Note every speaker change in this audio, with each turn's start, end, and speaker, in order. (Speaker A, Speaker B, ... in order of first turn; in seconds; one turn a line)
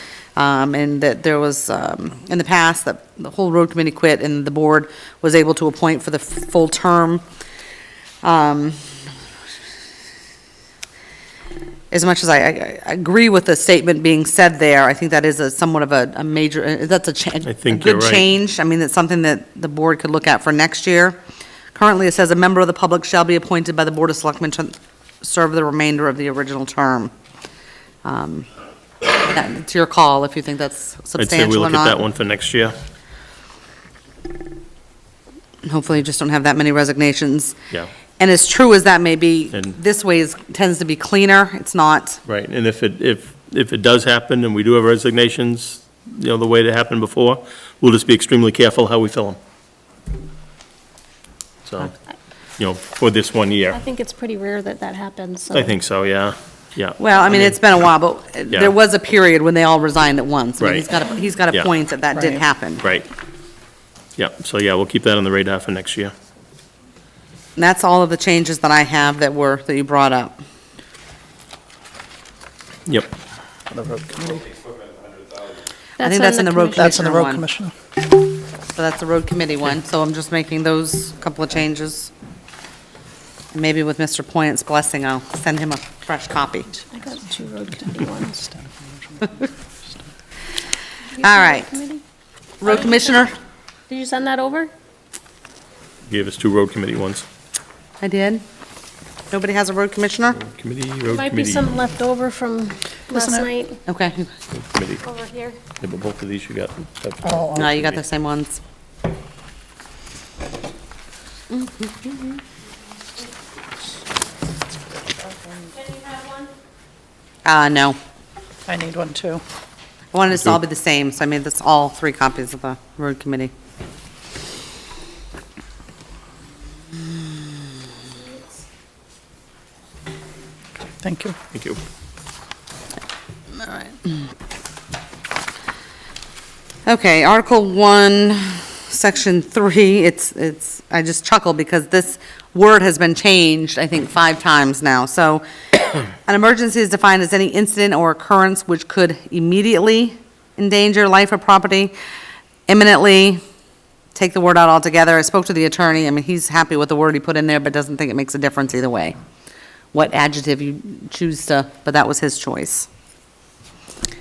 Speaker A: 0.3-7.2
Speaker A: 8.2-8.8
Speaker A: 11.9-21.2
Speaker B: 17.4-18.2
Speaker A: 21.7-27.1
Speaker A: 28.0-28.5
Speaker A: 29.2-32.0
Speaker B: 31.1-32.7
Speaker A: 35.6-37.5
Speaker A: 38.2-42.2
Speaker B: 42.2-49.4
Speaker B: 51.6-51.9
Speaker B: 52.6-53.8
Speaker C: 53.7-55.7
Speaker B: 55.5-57.6
Speaker A: 57.0-62.8
Speaker B: 60.6-60.9
Speaker D: 62.1-62.4
Speaker B: 62.8-63.1
Speaker B: 64.2-66.1
Speaker A: 67.6-70.4
Speaker B: 72.9-73.1
Speaker D: 73.7-74.5
Speaker C: 76.0-76.9
Speaker A: 76.0-77.4
Speaker D: 76.8-77.7
Speaker A: 78.7-82.1
Speaker A: 83.5-86.8
Speaker C: 86.9-88.5
Speaker D: 88.5-89.3
Speaker C: 91.1-92.0
Speaker A: 91.2-91.7
Speaker A: 92.6-93.3
Speaker C: 92.6-93.2
Speaker C: 93.9-94.7
Speaker B: 96.1-97.2
Speaker A: 98.0-98.4
Speaker A: 99.3-100.4
Speaker B: 100.4-101.7
Speaker C: 101.0-103.8
Speaker D: 103.1-103.5
Speaker A: 103.8-104.3
Speaker B: 104.5-105.0
Speaker C: 105.0-105.6
Speaker B: 105.8-108.0
Speaker D: 107.2-107.6
Speaker A: 107.5-108.6
Speaker A: 111.5-112.1
Speaker C: 115.8-116.5
Speaker A: 117.4-118.0
Speaker D: 118.7-119.4
Speaker A: 120.1-123.5
Speaker D: 131.0-131.3
Speaker B: 131.5-131.8
Speaker A: 133.6-133.9
Speaker A: 136.8-145.4
Speaker A: 146.1-151.9
Speaker A: 152.7-153.4
Speaker A: 154.1-159.2
Speaker A: 159.9-162.9